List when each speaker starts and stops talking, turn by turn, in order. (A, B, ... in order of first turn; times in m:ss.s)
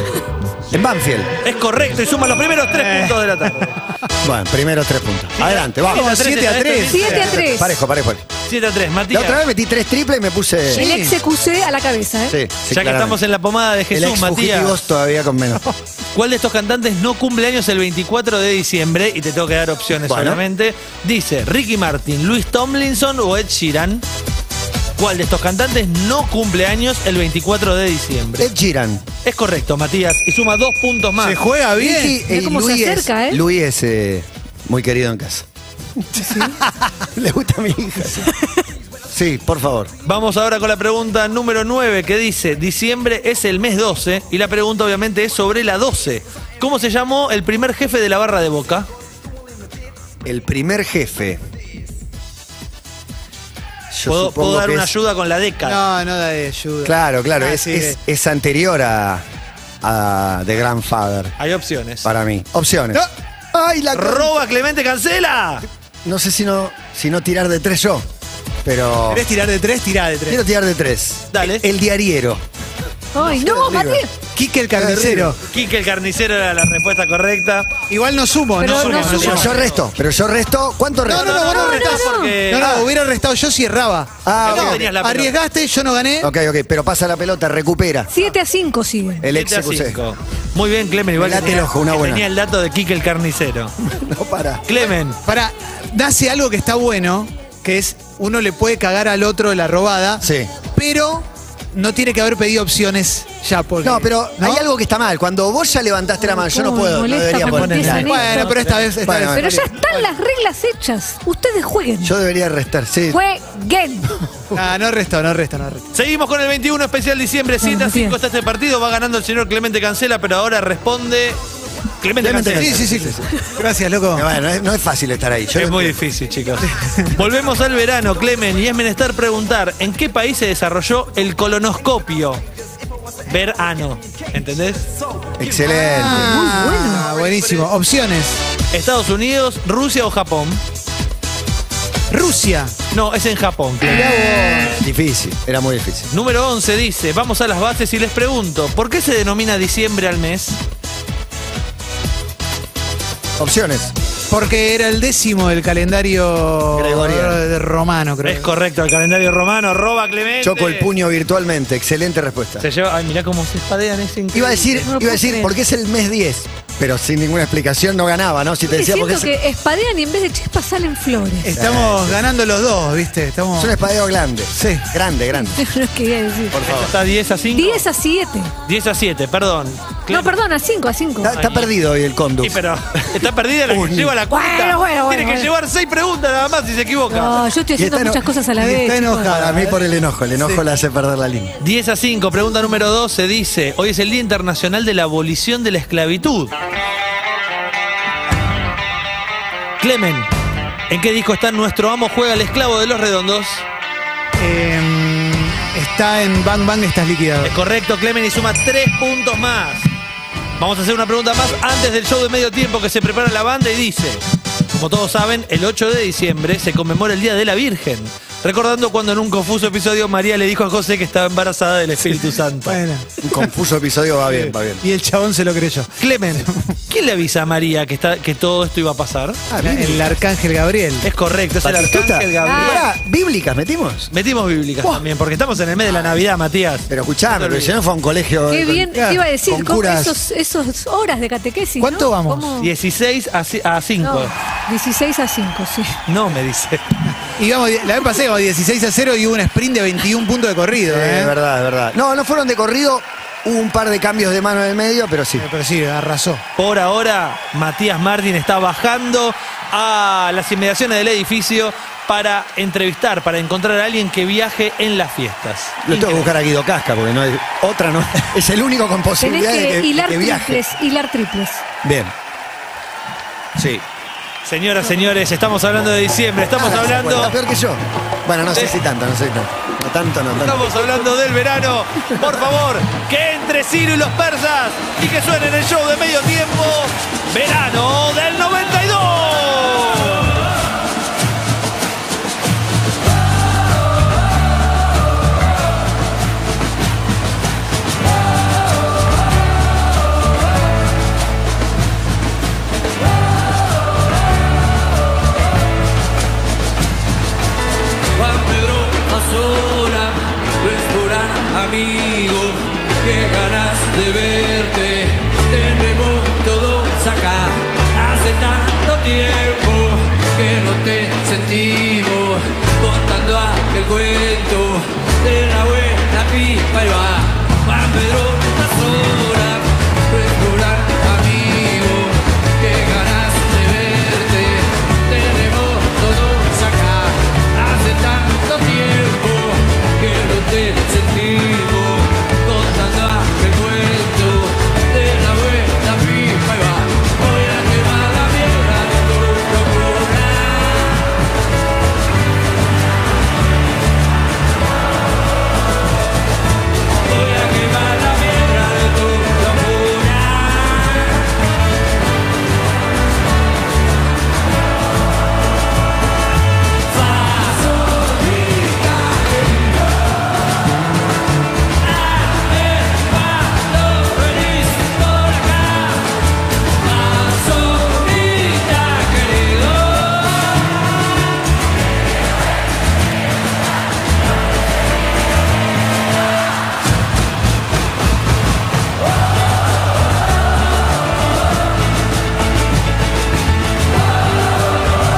0:00.7-0:01.3 A
0:01.4-0:03.8 B
0:02.7-0:03.7 C
0:04.2-0:06.1 A
0:05.4-0:07.4 B
0:05.9-0:07.3 C
0:06.9-0:07.7 D
0:07.0-0:08.2 A
0:08.5-0:09.4 B
0:09.1-0:10.9 A
0:10.7-0:11.2 C
0:10.7-0:12.4 D
0:12.3-0:13.2 A
0:12.7-0:14.8 B
0:13.9-0:15.6 A
0:16.1-0:24.0 B
0:20.0-0:20.4 A
0:25.0-0:28.5 B
0:28.4-0:29.0 A
0:29.2-0:31.4 B
0:31.2-0:32.2 C
0:31.8-0:35.5 A
0:32.2-0:33.4 D
0:36.0-0:36.6 A
0:36.3-0:36.6 C
0:37.1-0:38.3 A
0:39.1-0:39.9 A
0:40.0-0:48.9 B
0:50.2-0:51.4 A
0:53.9-0:54.9 A
0:54.1-0:55.8 B
0:55.6-0:58.0 C
0:56.8-0:59.2 A
0:59.8-1:01.3 A
1:01.4-1:02.1 B
1:02.0-1:04.3 A
1:03.9-1:05.7 B
1:06.0-1:08.1 A
1:08.6-1:09.3 A
1:09.1-1:10.4 C
1:10.3-1:12.4 A
1:11.3-1:11.6 B
1:13.2-1:14.1 D
1:13.2-1:14.0 A
1:14.3-1:15.4 C
1:14.7-1:15.4 A
1:15.5-1:17.8 B
1:17.9-1:19.5 C
1:18.6-1:19.5 D
1:18.6-1:19.8 B
1:19.1-1:21.7 A
1:21.0-1:26.3 C
1:21.1-1:22.9 B
1:21.5-1:22.4 D
1:24.2-1:24.8 A
1:24.4-1:25.3 B
1:26.2-1:28.1 A
1:28.1-1:29.3 D
1:29.2-1:30.0 A
1:29.3-1:33.7 B
1:31.2-1:32.3 A
1:33.8-1:34.6 A
1:34.7-1:35.2 B
1:35.2-1:44.6 C
1:40.2-1:40.5 A
1:43.8-1:48.4 A
1:46.2-1:48.6 D
1:47.4-1:50.1 C
1:48.2-1:48.9 B
1:49.0-1:49.6 A
1:49.3-1:52.2 D
1:52.0-1:53.2 A
1:53.1-1:54.2 D
1:54.5-1:55.9 C
1:55.9-2:01.4 B
1:57.6-1:58.2 D
2:02.0-2:02.8 B
2:02.2-2:03.4 A
2:02.5-2:04.3 C
2:04.1-2:06.0 A
2:05.6-2:12.4 B
2:13.3-2:14.9 B
2:15.4-2:16.5 A
2:15.6-2:18.4 C
2:15.9-2:17.1 D
2:18.7-2:20.6 B
2:22.1-2:22.8 C
2:22.9-2:24.1 B
2:23.9-2:24.8 C
2:24.7-2:26.1 A
2:26.1-2:30.6 B
2:33.4-2:33.9 A
2:34.3-2:38.5 C
2:36.7-2:37.4 A
2:38.2-2:40.9 B
2:40.4-2:42.7 A
2:42.6-2:44.9 B
2:44.3-2:49.3 A
2:44.8-2:45.6 D
2:48.7-2:51.5 D
2:51.4-2:53.8 C
2:51.5-2:52.2 A
2:53.6-2:55.6 A
2:54.5-2:54.8 C
2:55.4-2:56.6 D
2:56.5-2:57.0 A
2:56.6-2:57.8 B
2:57.5-2:58.5 D
2:58.7-3:00.3 B
3:00.1-3:01.3 D
3:01.2-3:03.1 A
3:01.3-3:01.7 B
3:02.4-3:07.4 B
3:03.7-3:04.1 A
3:04.3-3:05.5 D
3:07.1-3:09.3 D
3:07.8-3:08.3 A
3:08.6-3:09.8 C
3:09.1-3:11.6 A
3:11.6-3:16.5 B
3:19.8-3:20.3 B
3:20.9-3:23.7 B
3:24.4-3:27.6 C
3:27.4-3:29.9 B
3:30.6-3:42.8 B
3:42.0-3:43.5 C
3:43.2-3:44.8 A
3:44.2-3:46.8 C
3:46.0-3:49.4 B
3:49.5-3:50.1 A
3:49.6-3:51.1 C
3:51.0-3:52.8 B
3:51.6-3:54.1 A
3:52.4-3:52.8 D
3:54.1-3:57.8 B
3:56.9-4:00.2 A
3:58.5-4:02.7 D
4:01.8-4:02.5 C
4:02.6-4:04.3 B
4:04.0-4:06.0 D
4:06.1-4:06.9 B
4:07.4-4:11.3 C
4:10.8-4:15.5 A
4:15.4-4:16.4 C
4:16.6-4:26.3 B
4:25.8-4:30.6 A
4:29.2-4:31.6 D
4:31.8-4:32.1 A
4:33.6-4:33.8 A
4:34.4-4:37.4 B
4:36.6-4:40.7 A
4:38.5-4:38.8 B
4:40.4-4:50.4 B
5:08.2-5:51.1 E
5:57.1-6:01.1 E
6:06.9-6:09.8 E
6:12.0-6:16.0 E
6:16.8-6:20.5 E